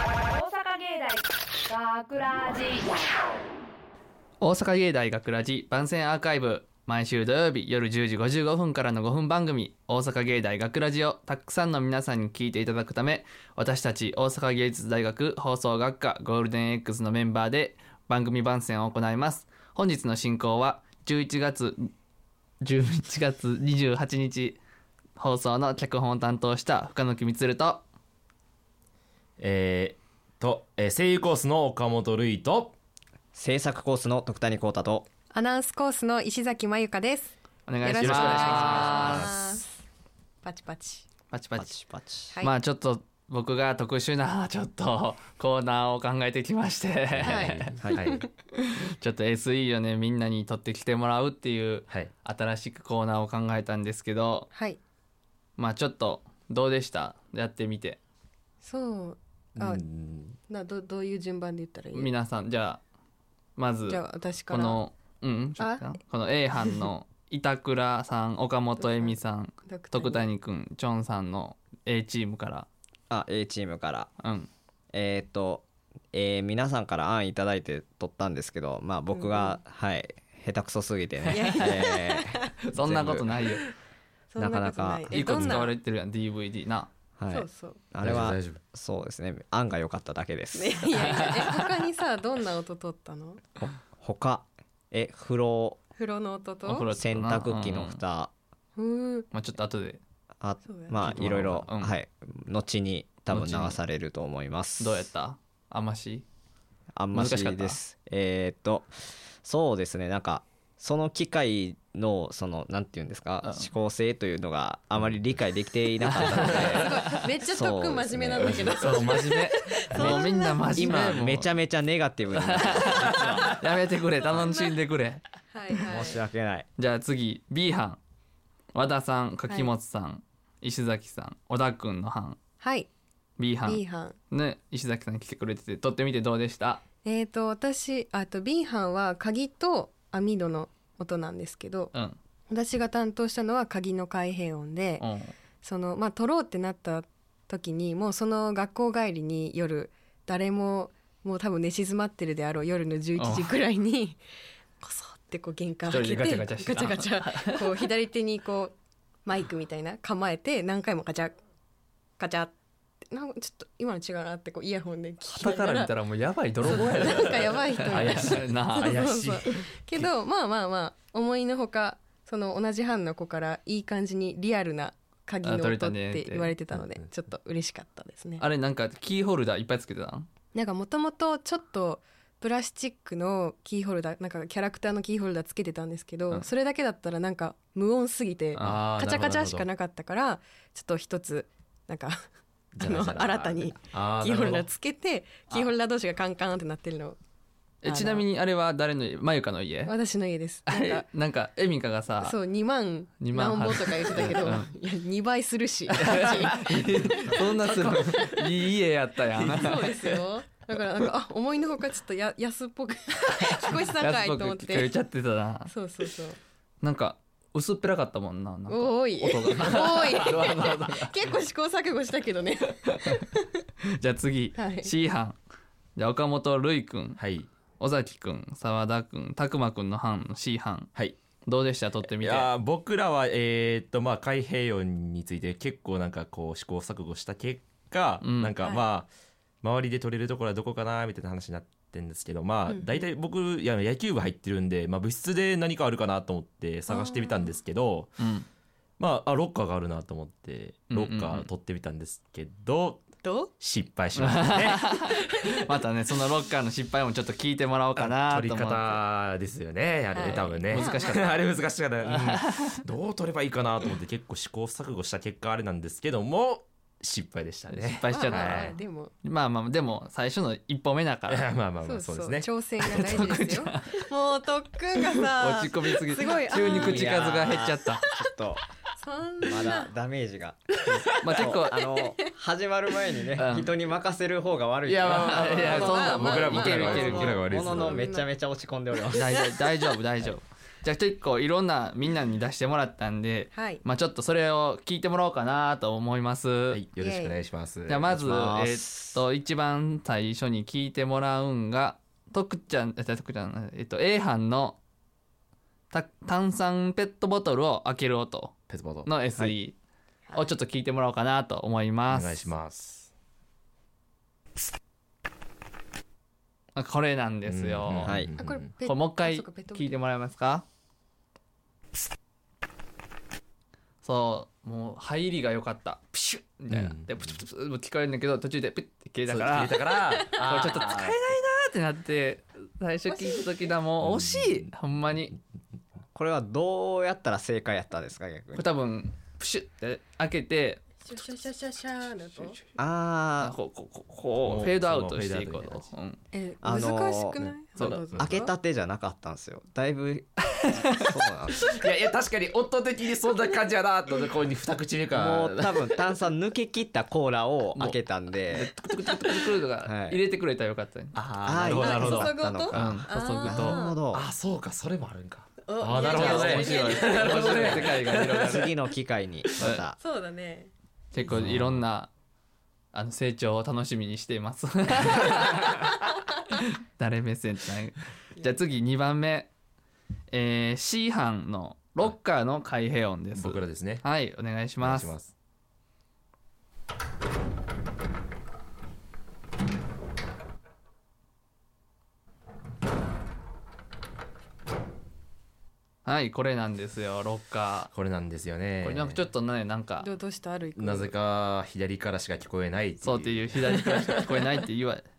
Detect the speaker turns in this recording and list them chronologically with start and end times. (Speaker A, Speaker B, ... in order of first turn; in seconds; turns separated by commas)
Speaker A: 0.3-3.0, Speaker B: 4.4-21.9, Speaker B: 22.6-24.6, Speaker B: 25.2-27.8, Speaker C: 29.4-32.7, Speaker D: 33.3-35.1, Speaker E: 35.3-39.7, Speaker B: 37.7-39.4, Speaker C: 38.0-39.4, Speaker E: 40.4-41.0, Speaker B: 41.3-41.8, Speaker D: 41.6-42.4, Speaker B: 42.4-47.8, Speaker C: 47.1-48.2, Speaker E: 47.2-48.3, Speaker D: 47.8-48.1, Speaker B: 48.6-54.5, Speaker E: 54.5-54.8, Speaker B: 55.6-58.0, Speaker E: 58.6-59.8, Speaker C: 59.5-60.4, Speaker E: 60.5-62.1, Speaker B: 61.9-62.8, Speaker B: 63.6-72.7, Speaker E: 63.9-64.8, Speaker E: 65.6-66.0, Speaker E: 66.5-66.9, Speaker E: 68.8-70.3, Speaker D: 73.1-74.1, Speaker B: 74.2-74.5, Speaker D: 74.9-83.3, Speaker E: 79.1-79.6, Speaker E: 81.3-82.6, Speaker B: 82.6-83.7, Speaker E: 83.4-83.7, Speaker E: 84.3-85.7, Speaker D: 84.4-85.2, Speaker B: 85.1-86.9, Speaker C: 85.3-85.6, Speaker D: 87.2-91.4, Speaker E: 87.3-87.8, Speaker C: 88.0-88.6, Speaker E: 90.5-93.5, Speaker B: 91.0-91.5, Speaker D: 93.5-95.8, Speaker E: 96.0-96.9, Speaker B: 96.6-98.0, Speaker D: 96.9-98.3, Speaker E: 98.8-99.3, Speaker B: 99.3-100.0, Speaker D: 100.4-105.1, Speaker E: 100.6-101.1, Speaker B: 101.0-102.0, Speaker B: 103.3-103.8, Speaker B: 104.8-106.2, Speaker D: 107.0-118.9, Speaker B: 107.1-107.8, Speaker B: 113.4-113.7, Speaker B: 116.0-117.1, Speaker E: 116.3-120.8, Speaker C: 118.4-119.2, Speaker B: 118.7-121.5, Speaker D: 120.0-123.5, Speaker B: 122.3-125.2, Speaker E: 124.2-124.8, Speaker E: 125.5-126.2, Speaker D: 125.9-126.7, Speaker B: 126.8-128.0, Speaker B: 128.7-132.4, Speaker E: 132.6-132.9, Speaker B: 133.4-136.8, Speaker E: 133.6-134.2, Speaker E: 137.0-141.9, Speaker E: 142.5-145.1, Speaker B: 145.0-145.3, Speaker E: 145.6-154.2, Speaker B: 153.2-153.6, Speaker E: 154.8-158.7, Speaker B: 155.9-157.9, Speaker E: 159.2-161.3, Speaker E: 162.2-162.5, Speaker E: 163.1-165.9, Speaker B: 165.3-169.1, Speaker E: 166.7-178.4, Speaker C: 168.8-170.1, Speaker B: 175.4-176.5, Speaker C: 176.7-177.1, Speaker B: 178.4-180.3, Speaker E: 180.5-192.2, Speaker B: 188.5-188.9, Speaker C: 188.6-189.7, Speaker C: 192.8-194.7, Speaker E: 192.8-197.2, Speaker B: 197.8-199.9, Speaker E: 197.8-198.2, Speaker E: 199.8-201.1, Speaker B: 200.7-202.4, Speaker E: 202.2-208.6, Speaker B: 203.2-204.7, Speaker B: 205.9-210.2, Speaker E: 209.3-214.9, Speaker B: 213.3-215.7, Speaker E: 215.7-216.4, Speaker B: 216.8-221.3, Speaker E: 218.7-223.6, Speaker B: 222.8-223.2, Speaker B: 223.8-225.4, Speaker E: 224.5-224.9, Speaker B: 225.9-227.2, Speaker C: 227.2-227.5, Speaker B: 227.8-230.9, Speaker B: 231.4-232.5, Speaker C: 232.2-239.1, Speaker B: 238.2-238.5, Speaker C: 239.6-248.1, Speaker E: 242.7-243.0, Speaker E: 246.9-247.5, Speaker B: 248.2-248.5, Speaker C: 249.0-253.0, Speaker B: 250.9-251.5, Speaker E: 253.2-253.5, Speaker C: 253.6-255.5, Speaker B: 254.2-259.0, Speaker C: 257.9-268.8, Speaker E: 260.1-261.2, Speaker B: 260.2-261.4, Speaker B: 262.0-262.8, Speaker B: 267.7-271.5, Speaker E: 268.1-269.1, Speaker C: 271.3-273.3, Speaker E: 271.8-278.3, Speaker B: 272.8-274.0, Speaker B: 275.1-278.1, Speaker D: 276.5-278.6, Speaker E: 278.8-279.9, Speaker D: 279.4-289.4, Speaker E: 280.8-282.3, Speaker B: 281.1-281.9, Speaker B: 283.3-283.8, Speaker C: 284.9-288.1, Speaker B: 285.1-287.3, Speaker E: 285.5-288.3, Speaker E: 289.0-289.7, Speaker B: 289.1-296.8, Speaker E: 293.5-293.8, Speaker C: 296.7-298.2, Speaker E: 297.0-297.4, Speaker B: 297.9-304.8, Speaker D: 298.1-299.2, Speaker B: 305.9-309.8, Speaker C: 308.7-309.1, Speaker E: 310.3-310.5, Speaker B: 310.3-312.5, Speaker C: 312.1-313.1, Speaker B: 316.7-318.2, Speaker C: 317.4-318.7, Speaker D: 318.0-318.3, Speaker E: 318.3-320.0, Speaker B: 318.8-320.6, Speaker B: 324.0-335.4, Speaker C: 326.7-327.4, Speaker C: 329.2-331.2, Speaker E: 333.1-333.6, Speaker C: 334.0-334.7, Speaker D: 336.1-338.7, Speaker B: 338.5-340.9, Speaker E: 341.0-342.6, Speaker B: 342.3-342.7, Speaker D: 342.8-343.5, Speaker B: 343.4-346.2, Speaker C: 344.4-345.9, Speaker E: 346.3-348.5, Speaker D: 346.6-347.4, Speaker C: 347.4-348.3, Speaker B: 347.8-348.1, Speaker D: 348.1-351.7, Speaker B: 350.7-351.1, Speaker C: 351.7-355.9, Speaker D: 355.1-358.7, Speaker B: 357.7-362.1, Speaker D: 359.8-360.2, Speaker C: 361.1-362.4, Speaker D: 361.4-364.3, Speaker E: 361.8-364.0, Speaker B: 362.7-363.8, Speaker C: 364.1-368.4, Speaker E: 365.6-367.8, Speaker B: 366.1-368.7, Speaker D: 367.8-369.9, Speaker B: 369.6-369.8, Speaker E: 369.9-370.7, Speaker B: 371.1-372.1, Speaker C: 371.2-371.8, Speaker B: 372.9-375.9, Speaker B: 376.5-379.5, Speaker B: 380.3-385.2, Speaker C: 383.3-384.0, Speaker C: 384.8-385.3, Speaker B: 396.0-397.9, Speaker C: 397.9-399.2, Speaker B: 398.8-400.1, Speaker E: 400.0-401.1, Speaker C: 400.8-404.4, Speaker B: 403.0-405.1, Speaker E: 403.7-404.2